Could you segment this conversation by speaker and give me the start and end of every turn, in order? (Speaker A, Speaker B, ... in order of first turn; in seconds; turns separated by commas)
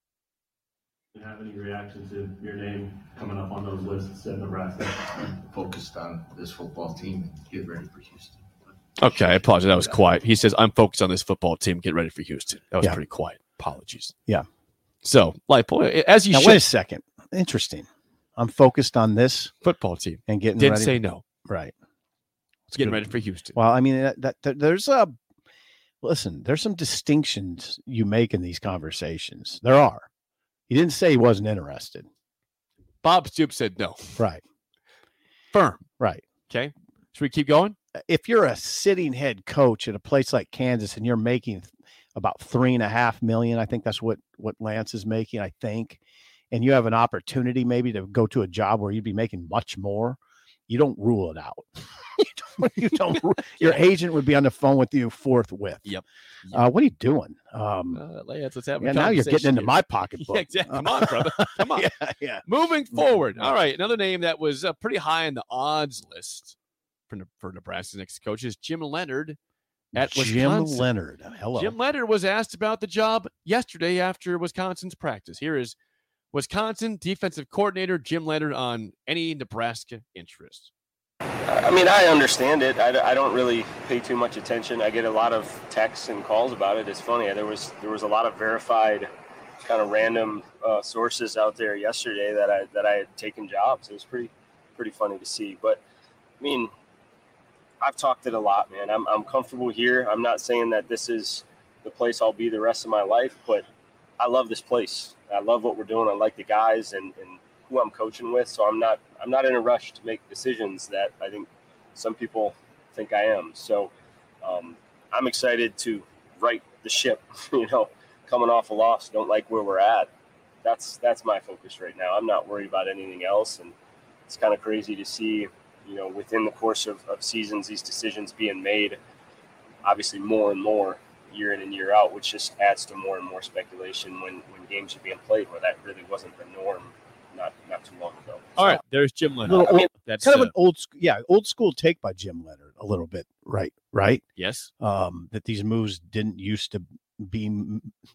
Speaker A: 1.1-5.0, Speaker B: 5.1-8.4, Speaker C: 9.0-14.1, Speaker C: 15.0-16.6, Speaker D: 16.3-19.5, Speaker C: 19.6-21.2, Speaker D: 20.3-21.7, Speaker D: 22.7-25.2, Speaker C: 22.7-23.6, Speaker D: 26.0-30.1, Speaker D: 30.7-32.1, Speaker C: 33.0-34.2, Speaker D: 34.2-34.4, Speaker C: 35.5-35.8, Speaker C: 36.5-37.8, Speaker D: 38.0-46.0, Speaker D: 46.5-55.9, Speaker C: 55.8-56.7, Speaker D: 56.5-58.0, Speaker C: 57.9-61.9, Speaker D: 58.8-63.6, Speaker C: 62.4-66.5, Speaker C: 67.1-69.4, Speaker D: 69.9-71.7, Speaker C: 69.9-70.9, Speaker C: 71.5-75.7, Speaker C: 76.3-80.7, Speaker E: 81.5-89.1, Speaker E: 89.6-95.8, Speaker E: 96.4-96.7, Speaker E: 97.8-103.7, Speaker E: 104.2-120.1, Speaker E: 120.6-123.7, Speaker E: 124.3-129.0, Speaker E: 129.8-138.7, Speaker C: 138.6-140.5, Speaker D: 139.5-144.2, Speaker C: 144.4-144.7, Speaker D: 144.8-147.9